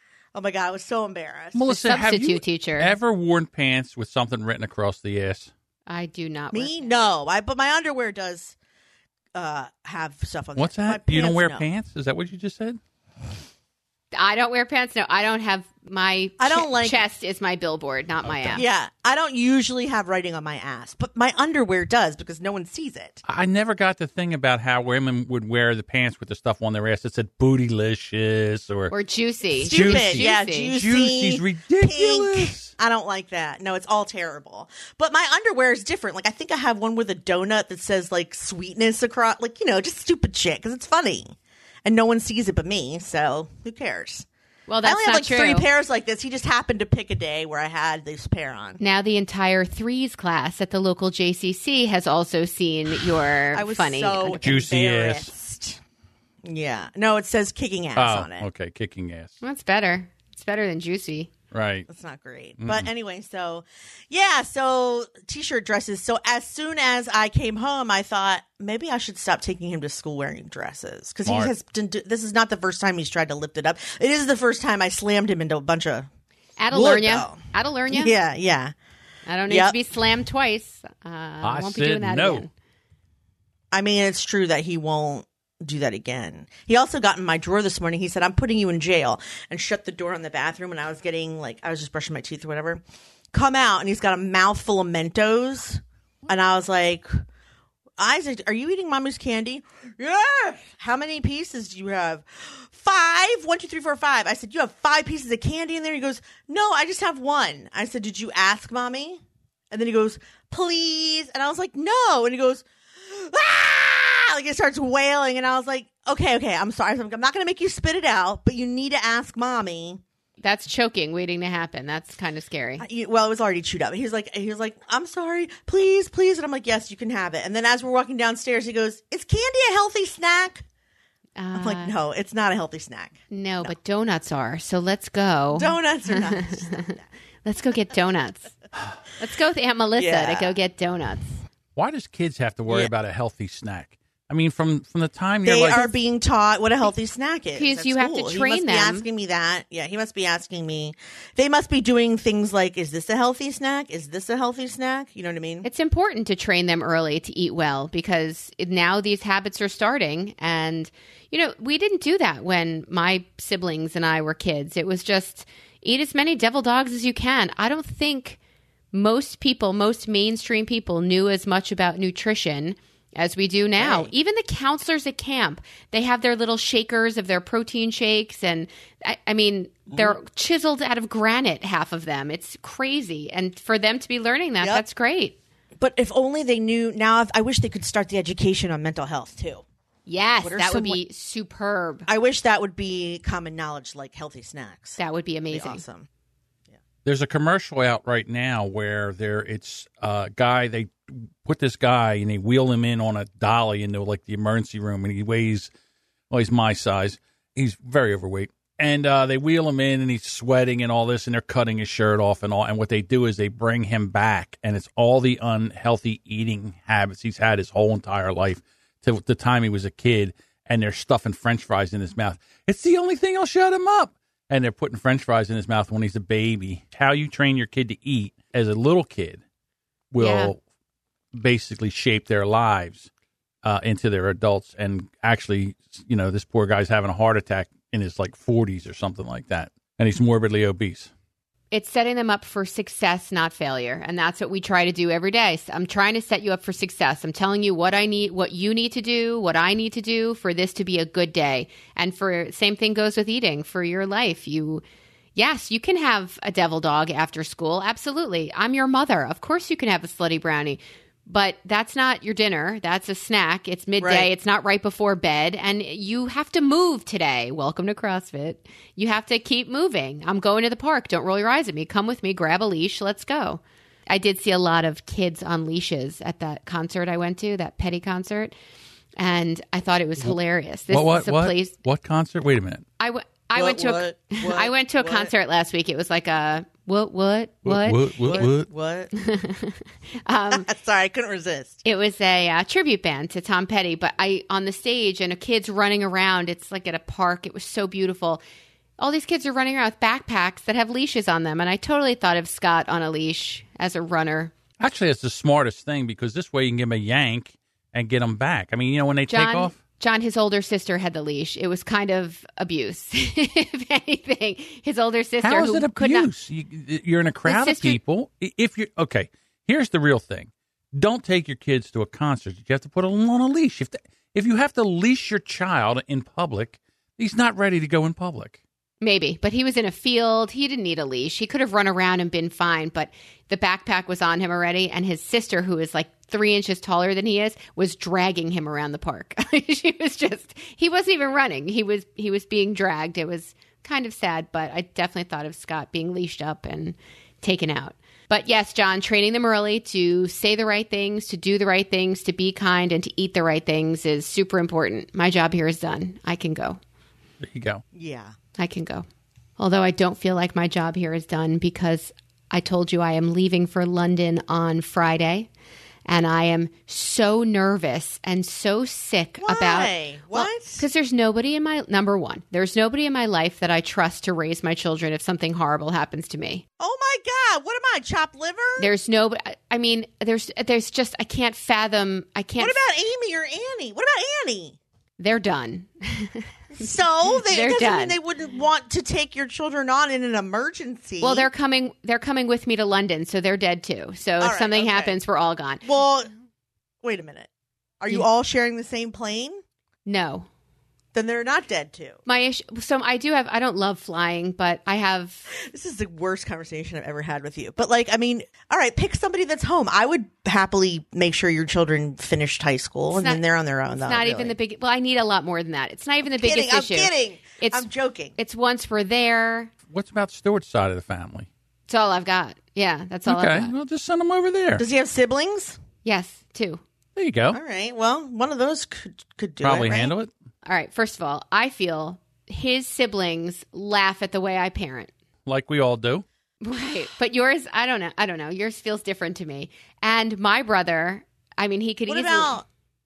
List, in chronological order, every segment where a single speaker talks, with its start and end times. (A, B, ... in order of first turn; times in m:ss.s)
0:00.3-0:01.6 A
0:01.5-0:05.5 B
0:01.7-0:02.9 C
0:05.9-0:07.0 C
0:06.5-0:08.5 A
0:09.3-0:11.6 A
0:10.6-0:12.8 B
0:14.1-0:18.6 C
0:16.4-0:17.0 A
0:18.2-0:18.6 B
0:18.5-0:23.2 A
0:23.2-0:28.9 B
0:28.9-0:30.7 C
0:29.6-0:32.7 B
0:29.6-0:44.3 A
0:44.7-0:45.7 C
0:44.8-0:48.8 A
0:48.8-0:54.4 C
0:53.5-0:55.8 A
0:54.4-0:55.3 B
0:56.4-0:58.5 A
0:58.0-0:59.3 B
0:59.4-1:01.3 C
1:01.5-1:01.9 B
1:01.9-1:16.1 A
1:02.6-1:02.9 B
1:11.2-1:11.5 B
1:16.6-1:18.1 C
1:16.7-1:18.7 A
1:19.2-1:22.5 C
1:19.5-1:19.8 A
1:21.4-1:22.4 B
1:23.7-1:32.8 A
1:33.3-1:37.2 A
1:38.0-2:00.0 A
2:00.4-2:02.8 C
2:02.8-2:10.6 A
2:11.4-2:11.9 C
2:11.5-2:13.7 A
2:13.3-2:18.5 C
2:15.5-2:17.0 A
2:19.2-2:21.4 C
2:20.0-2:20.5 A
2:21.8-2:25.9 B
2:25.4-2:35.7 A
2:27.5-2:29.0 C
2:35.6-2:48.4 C
2:48.9-3:05.4 C
2:53.8-2:54.1 A
3:05.8-3:09.6 A
3:10.1-3:12.1 C
3:10.4-3:11.0 A
3:12.0-3:15.0 A
3:15.0-3:15.8 C
3:15.5-3:16.1 A
3:17.0-3:25.7 B
3:26.3-3:49.4 B
3:50.1-3:50.6 B
3:50.2-3:50.5 C
3:51.3-3:53.1 B
3:53.6-4:01.1 B
4:01.7-4:14.8 C
4:15.3-4:38.5 C
4:24.0-4:24.3 A
4:39.2-4:41.7 C
4:40.9-4:42.8 B
4:43.0-4:48.5 C
4:43.5-4:45.3 A
4:47.6-4:48.7 B
4:48.2-4:49.1 A
4:49.1-4:50.7 C
4:50.5-4:51.8 A
4:51.8-4:58.4 C
4:59.0-5:04.5 C
5:04.8-5:09.7 B
5:09.3-5:16.3 C
5:15.4-5:28.6 B
5:17.4-5:18.0 C
5:29.0-5:56.8 C
5:57.4-5:57.8 B
5:57.9-5:58.4 A
5:58.6-5:59.0 C
5:59.6-6:05.5 C
6:06.1-6:16.6 C
6:09.4-6:10.8 A
6:16.8-6:18.9 A
6:18.8-6:22.8 C
6:22.6-6:24.8 A
6:25.2-6:26.5 C
6:26.7-6:31.5 A
6:27.4-6:28.2 C
6:31.2-6:35.8 C
6:34.4-6:35.1 A
6:35.8-6:36.3 A
6:37.0-6:39.6 A
6:40.0-6:40.5 C
6:41.1-6:42.2 A
6:42.2-6:45.5 C
6:45.5-6:54.5 A
6:53.1-6:53.4 C
6:54.0-6:59.7 C
6:56.2-6:58.3 A
6:59.9-7:01.5 B
7:01.9-7:03.7 C
7:03.2-7:04.8 B
7:04.8-7:05.8 A
7:06.0-7:06.8 C
7:07.2-7:07.6 B
7:07.5-7:10.1 A
7:09.6-7:10.3 B
7:10.6-7:15.1 C
7:15.4-7:16.2 B
7:16.6-7:22.6 C
7:22.1-7:22.6 A